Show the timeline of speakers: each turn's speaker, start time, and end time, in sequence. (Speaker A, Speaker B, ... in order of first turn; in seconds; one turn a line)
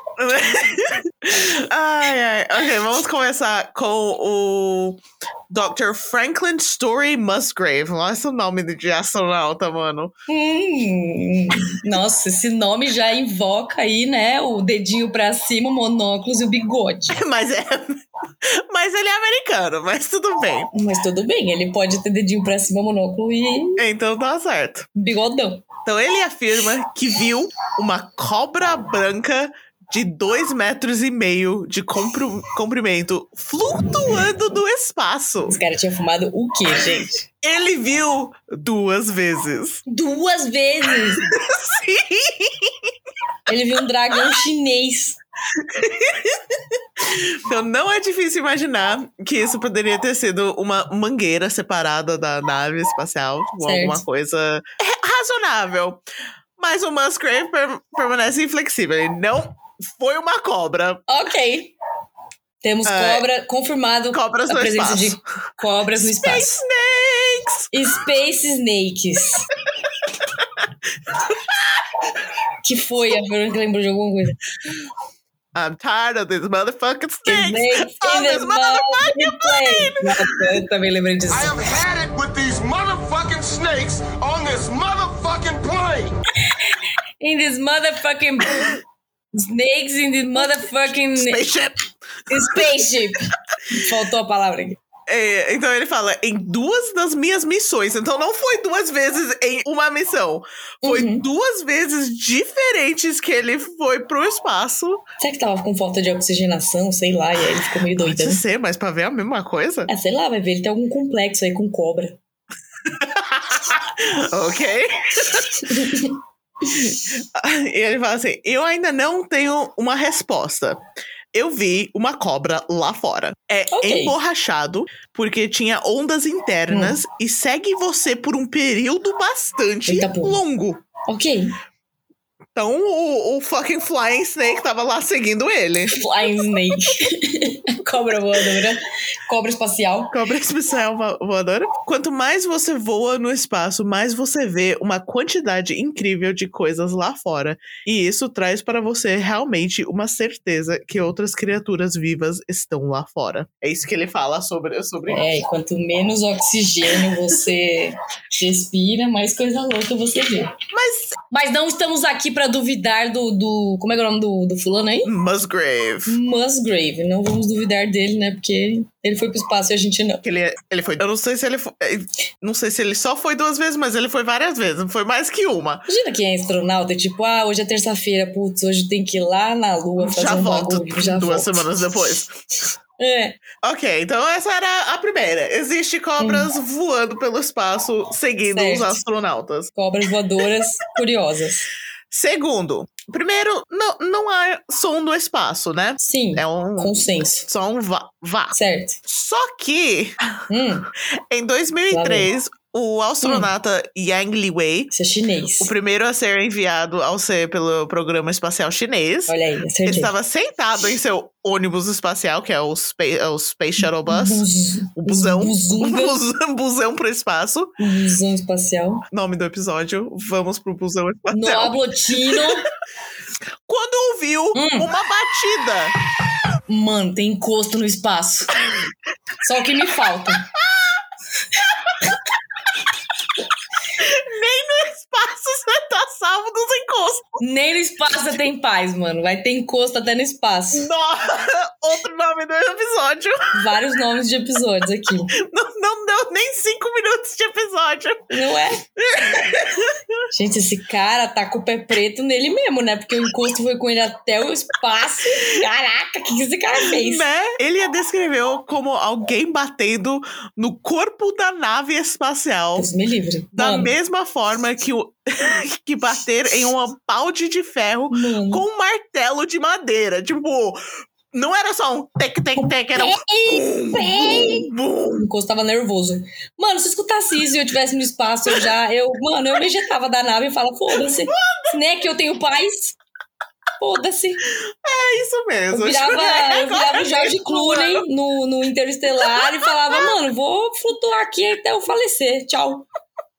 Speaker A: 0.2-10.1
Speaker B: 10.3-17.2
Speaker A: 17.1-20.7
Speaker B: 20.7-23.8
Speaker A: 23.8-24.9
Speaker B: 24.9-25.7
Speaker A: 25.8-35.6
Speaker B: 35.5-37.2
Speaker A: 37.4-39.8
Speaker B: 39.9-41.2
Speaker A: 41.2-42.9
Speaker B: 43.5-45.2
Speaker A: 45.5-56.0
Speaker B: 53.6-54.0
Speaker A: 56.6-61.0
Speaker B: 61.1-61.7
Speaker B: 62.6-66.5
Speaker A: 62.8-63.2
Speaker A: 64.1-65.2
Speaker A: 66.0-67.7
Speaker B: 67.7-69.5
Speaker A: 69.7-71.8
Speaker B: 72.6-74.4
Speaker A: 75.5-80.3
Speaker B: 77.2-81.6
Speaker C: 81.3-86.2
Speaker B: 86.5-88.8
Speaker B: 89.3-91.4
Speaker A: 90.4-92.8
Speaker B: 92.3-94.8
Speaker A: 95.1-105.0
Speaker B: 100.8-101.2
Speaker B: 105.2-108.4
Speaker A: 108.0-109.9
Speaker B: 109.9-112.2
Speaker A: 112.8-115.8
Speaker B: 115.7-116.2
Speaker A: 116.7-130.8
Speaker B: 123.7-124.2
Speaker B: 126.7-127.0
Speaker B: 129.9-130.4
Speaker B: 131.1-131.5
Speaker A: 132.5-136.0
Speaker B: 135.9-140.2
Speaker A: 140.1-155.2
Speaker B: 155.1-160.5
Speaker A: 160.7-161.1
Speaker B: 161.3-165.1
Speaker A: 165.0-166.2
Speaker B: 166.1-170.2
Speaker A: 170.2-175.9
Speaker B: 175.9-181.7
Speaker A: 180.0-182.3
Speaker B: 183.0-183.4
Speaker A: 183.6-189.7
Speaker B: 186.2-186.5
Speaker B: 188.5-189.0
Speaker B: 189.7-191.7
Speaker A: 192.1-200.3
Speaker B: 196.0-197.4
Speaker B: 198.5-199.0
Speaker B: 200.5-200.9
Speaker A: 201.3-204.9
Speaker B: 201.9-202.3
Speaker B: 203.2-203.5
Speaker B: 204.9-205.7
Speaker A: 205.6-214.4
Speaker B: 209.3-210.1
Speaker B: 214.1-216.2
Speaker A: 214.9-217.8
Speaker B: 217.8-219.0
Speaker A: 219.1-222.5
Speaker B: 221.3-222.7
Speaker A: 223.7-225.9
Speaker B: 224.5-224.9
Speaker B: 226.7-228.5
Speaker B: 229.4-230.4
Speaker A: 230.5-231.0
Speaker A: 231.7-231.9
Speaker A: 234.0-237.4
Speaker B: 237.4-240.9
Speaker A: 240.7-243.5
Speaker B: 243.5-245.3
Speaker A: 245.3-248.3
Speaker B: 248.3-248.8
Speaker A: 249.0-250.2
Speaker B: 250.3-257.2
Speaker A: 256.8-262.9
Speaker B: 262.8-263.9
Speaker A: 263.5-270.8
Speaker B: 268.1-268.6
Speaker A: 271.3-275.3
Speaker B: 272.6-282.9
Speaker A: 281.0-281.7
Speaker B: 283.8-284.4
Speaker A: 284.6-288.0
Speaker B: 285.7-292.9
Speaker A: 289.2-290.1